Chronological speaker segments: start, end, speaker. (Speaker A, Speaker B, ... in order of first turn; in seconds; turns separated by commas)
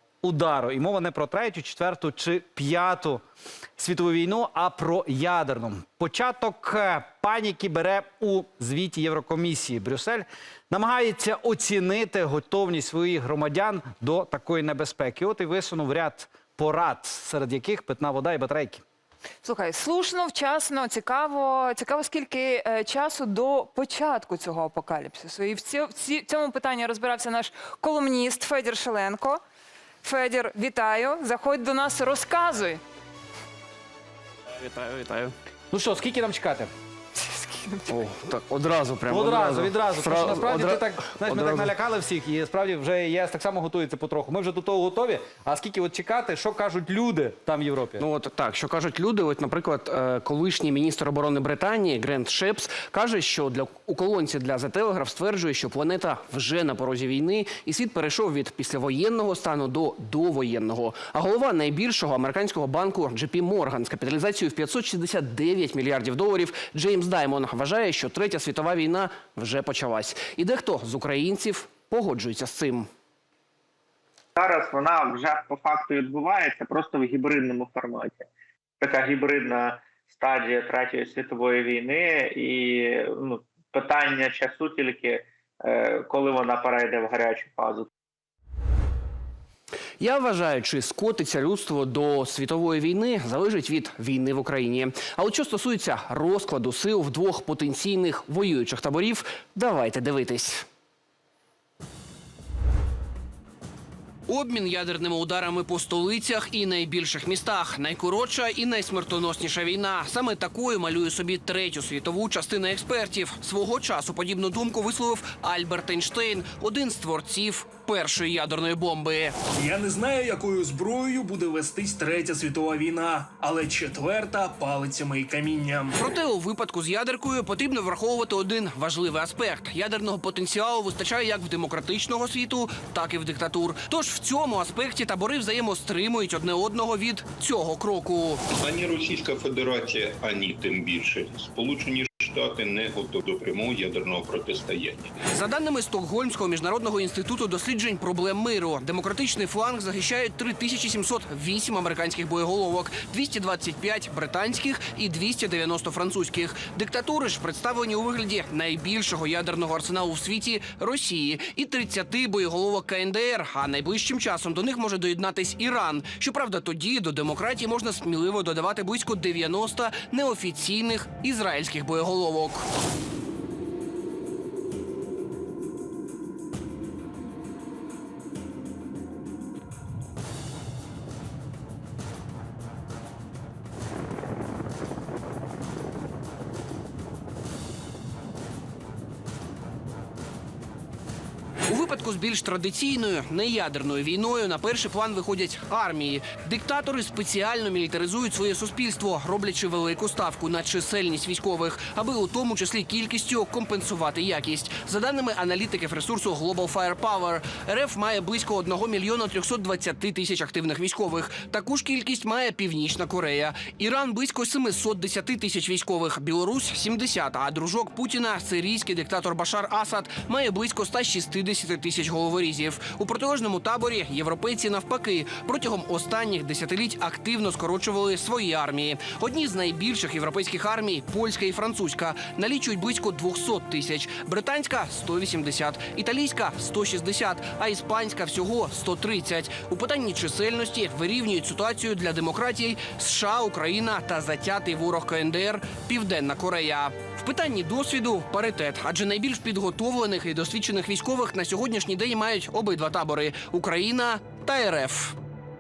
Speaker A: 0.2-3.2, Speaker A: 3.8-18.8, Speaker B: 19.4-29.4, Speaker B: 30.0-32.8, Speaker C: 34.5-35.3, Speaker A: 35.7-36.7, Speaker B: 37.2-38.0, Speaker C: 37.9-41.7, Speaker A: 39.1-48.0, Speaker C: 48.0-72.9, Speaker D: 74.4-78.3, Speaker D: 78.8-87.9, Speaker C: 90.0-100.7, Speaker C: 104.3-119.4, Speaker E: 119.5-126.0, Speaker C: 125.9-138.4, Speaker F: 138.5-145.2, Speaker C: 145.3-172.7, Speaker C: 191.7-255.2